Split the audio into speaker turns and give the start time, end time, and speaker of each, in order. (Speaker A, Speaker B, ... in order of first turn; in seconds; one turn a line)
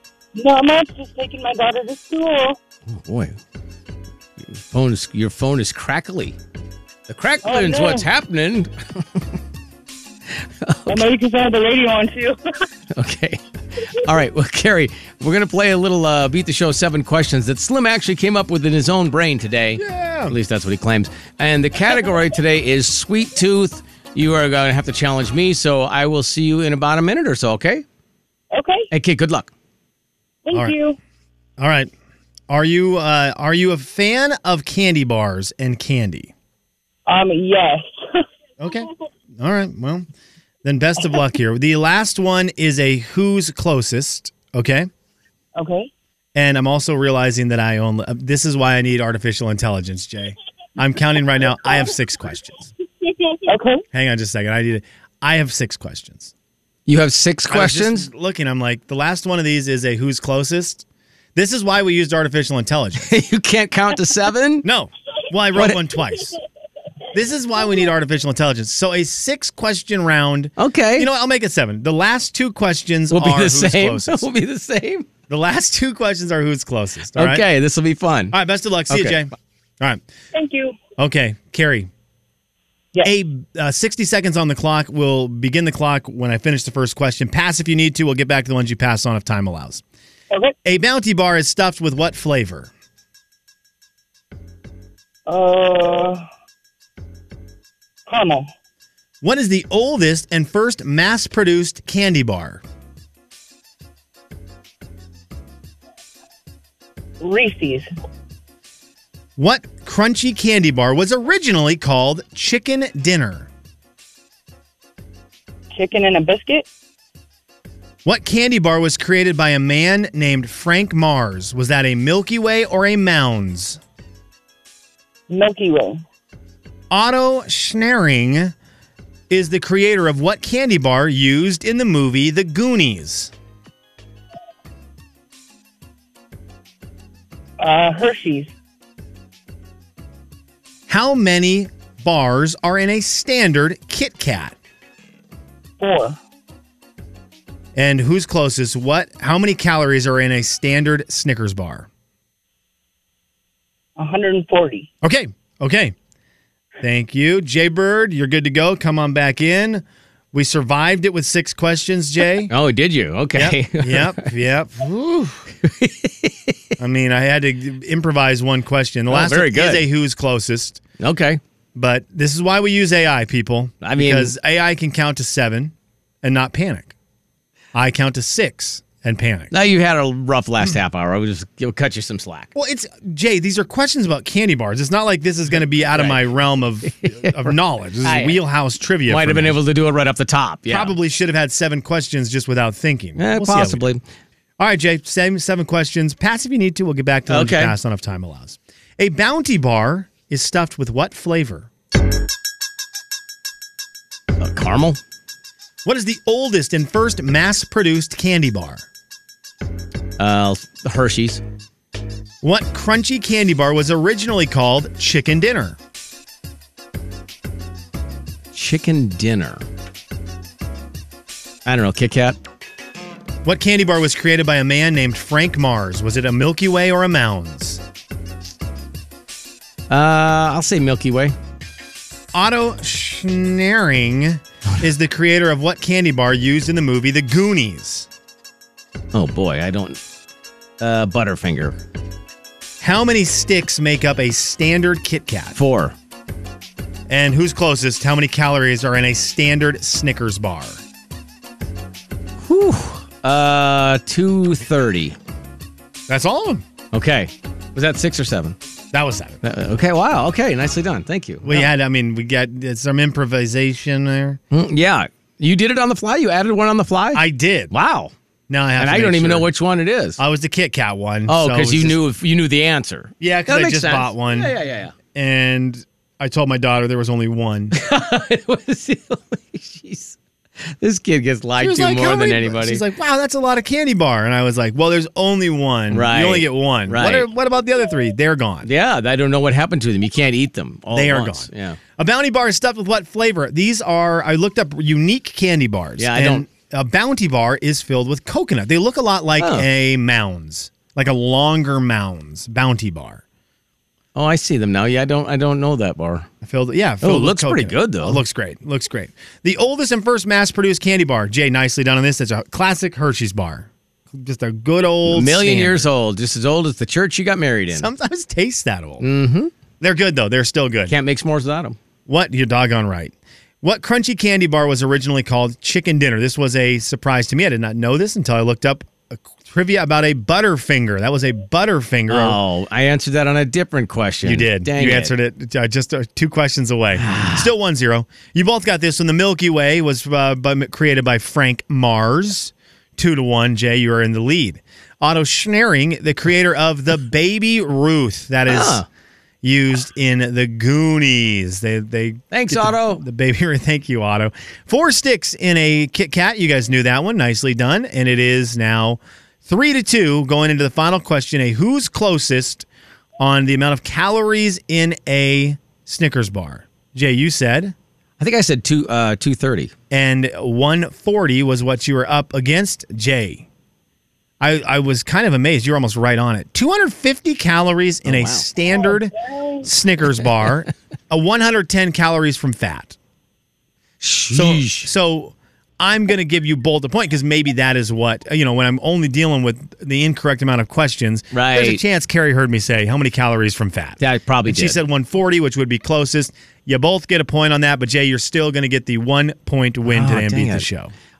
Speaker A: 0.3-2.6
Speaker B: 2.9-3.4
Speaker B: 4.4-6.4
Speaker B: 7.1-9.2
Speaker A: 7.4-8.1
Speaker B: 10.6-11.0
Speaker A: 10.9-12.7
Speaker B: 12.9-13.4
Speaker B: 13.9-27.8
Speaker C: 19.8-20.4
Speaker A: 28.5-28.9
Speaker B: 28.9-29.5
Speaker A: 30.5-31.0
Speaker C: 31.6-31.9
Speaker C: 32.5-36.3
Speaker A: 37.1-38.2
Speaker C: 38.6-40.1
Speaker C: 40.6-44.9
Speaker A: 45.6-45.9
Speaker C: 46.4-52.7
Speaker A: 53.5-53.8
Speaker C: 53.9-56.3
Speaker B: 56.9-58.1
Speaker C: 57.5-63.1
Speaker B: 63.0-64.7
Speaker C: 64.6-66.4
Speaker B: 65.6-65.8
Speaker C: 67.1-74.3
Speaker B: 70.6-71.1
Speaker B: 73.1-75.1
Speaker C: 75.3-77.5
Speaker B: 77.2-78.4
Speaker C: 78.3-80.0
Speaker B: 78.9-79.3
Speaker A: 80.3-80.8
Speaker C: 81.0-81.9
Speaker C: 83.0-89.8
Speaker A: 90.3-90.6
Speaker C: 90.7-92.7
Speaker A: 95.3-96.2
Speaker A: 98.1-98.5
Speaker C: 99.2-102.6
Speaker A: 107.2-107.9
Speaker C: 109.4-113.5
Speaker A: 115.7-116.7
Speaker C: 118.0-123.8
Speaker A: 125.3-126.0
Speaker C: 126.9-128.5
Speaker C: 129.3-133.3
Speaker A: 137.6-138.5
Speaker C: 140.9-144.6
Speaker A: 145.8-146.2
Speaker C: 147.8-151.9
Speaker A: 154.0-154.9
Speaker C: 155.0-155.9
Speaker C: 156.8-162.5
Speaker B: 162.5-164.3
Speaker C: 163.3-165.5
Speaker B: 165.6-166.6
Speaker C: 166.8-170.8
Speaker B: 169.1-169.9
Speaker B: 171.0-171.4
Speaker C: 171.8-176.9
Speaker B: 173.8-174.3
Speaker C: 177.7-179.5
Speaker B: 179.5-182.5
Speaker C: 182.6-189.6
Speaker B: 185.8-186.3
Speaker B: 186.8-188.4
Speaker B: 189.1-190.9
Speaker C: 190.7-193.8
Speaker B: 193.2-194.0
Speaker C: 194.6-201.7
Speaker B: 197.3-197.7
Speaker B: 204.4-205.0
Speaker C: 205.8-208.8
Speaker B: 210.2-211.4
Speaker C: 212.4-215.8
Speaker B: 218.5-219.6
Speaker B: 221.7-222.4
Speaker C: 223.4-227.8
Speaker B: 229.9-231.3
Speaker C: 232.3-238.1
Speaker B: 239.1-240.0
Speaker B: 240.8-241.8
Speaker C: 242.8-245.6
Speaker B: 245.6-245.9
Speaker C: 247.1-250.8
Speaker B: 252.4-255.2
Speaker C: 256.1-256.6
Speaker B: 256.9-258.6
Speaker C: 258.9-259.4
Speaker B: 259.4-261.7
Speaker C: 261.4-264.4
Speaker B: 264.5-268.1
Speaker C: 267.1-267.7
Speaker C: 268.5-269.5
Speaker B: 268.8-270.2
Speaker C: 270.2-272.0
Speaker B: 271.3-274.9
Speaker C: 273.2-274.6
Speaker C: 275.1-277.8
Speaker B: 277.7-280.2
Speaker B: 280.8-282.8
Speaker C: 281.6-288.7
Speaker B: 285.9-287.3
Speaker B: 288.6-291.8
Speaker C: 290.9-303.2
Speaker B: 296.0-296.5
Speaker B: 299.4-299.7
Speaker B: 304.1-306.3
Speaker C: 306.4-315.9
Speaker B: 307.0-308.2
Speaker B: 315.1-317.9
Speaker C: 317.7-319.1
Speaker B: 319.0-319.5
Speaker C: 319.8-320.9
Speaker B: 320.9-321.8
Speaker C: 322.1-332.4
Speaker B: 332.1-335.1
Speaker C: 334.2-348.9
Speaker B: 337.0-337.5
Speaker B: 348.5-348.9
Speaker C: 349.4-362.7
Speaker B: 352.3-353.0
Speaker C: 363.2-367.8
Speaker B: 368.2-369.7
Speaker C: 369.9-373.5
Speaker C: 374.4-383.0
Speaker B: 378.1-378.4
Speaker B: 384.0-384.9
Speaker C: 384.3-400.9
Speaker B: 391.3-391.8
Speaker B: 394.0-394.8
Speaker B: 399.9-400.7